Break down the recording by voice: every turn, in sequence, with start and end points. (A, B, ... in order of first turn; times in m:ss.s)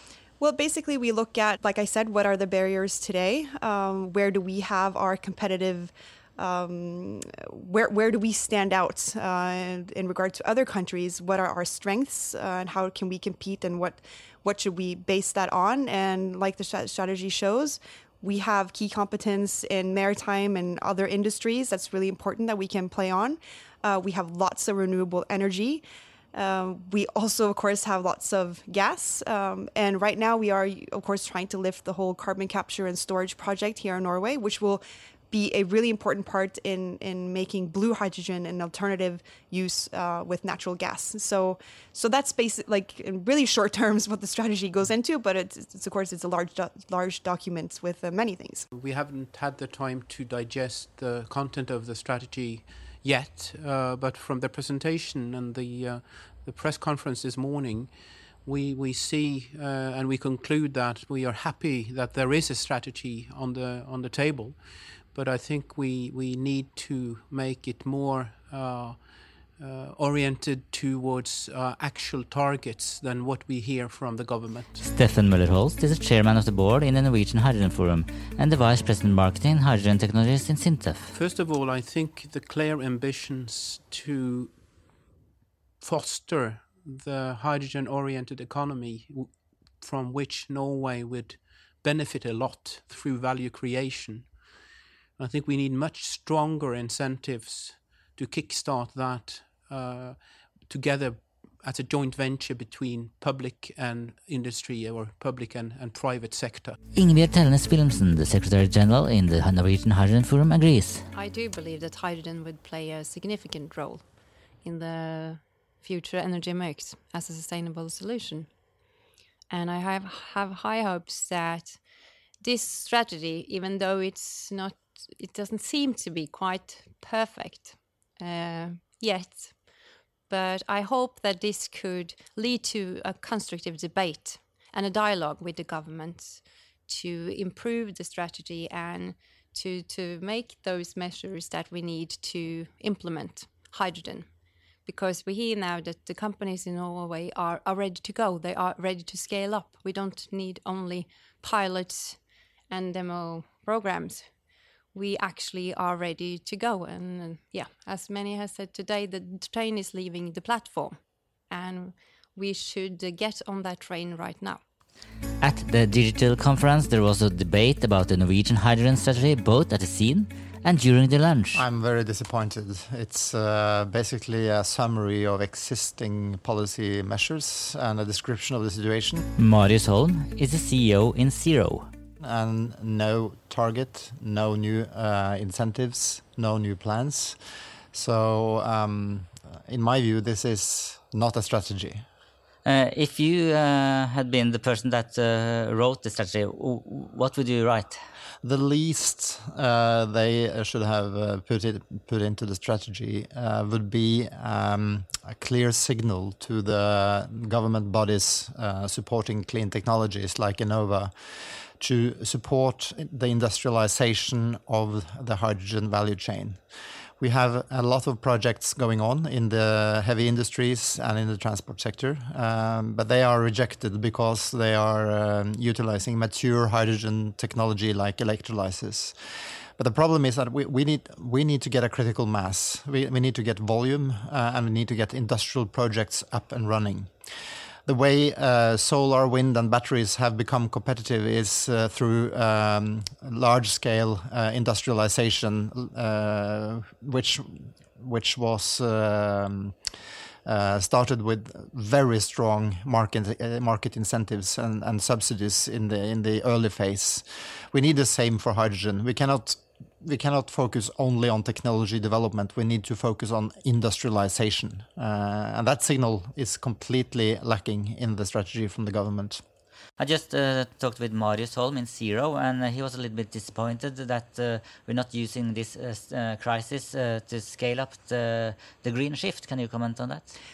0:00.4-0:48.7 A
0:48.7-1:14.8 B
1:14.8-1:21.1 C
1:21.1-1:24.5 B
1:25.8-1:34.5 B
1:35.2-1:46.8 B
1:46.9-1:51.0 C
1:51.1-1:54.0 D
1:54.6-1:58.5 D
1:59.5-2:01.8 D
2:02.4-2:09.7 D
2:10.3-2:24.3 D
2:24.8-2:44.6 D
2:45.4-2:51.6 C
2:51.5-2:59.2 E
2:59.4-3:01.8 C
3:02.2-3:07.4 E
3:07.9-3:12.0 E
3:12.6-3:17.9 D
3:18.4-3:31.1 E
3:31.8-3:36.6 E
3:37.2-3:49.1 E
3:49.8-3:57.1 E
3:57.8-4:09.8 E
4:10.4-4:29.4 E
4:30.0-4:40.3 C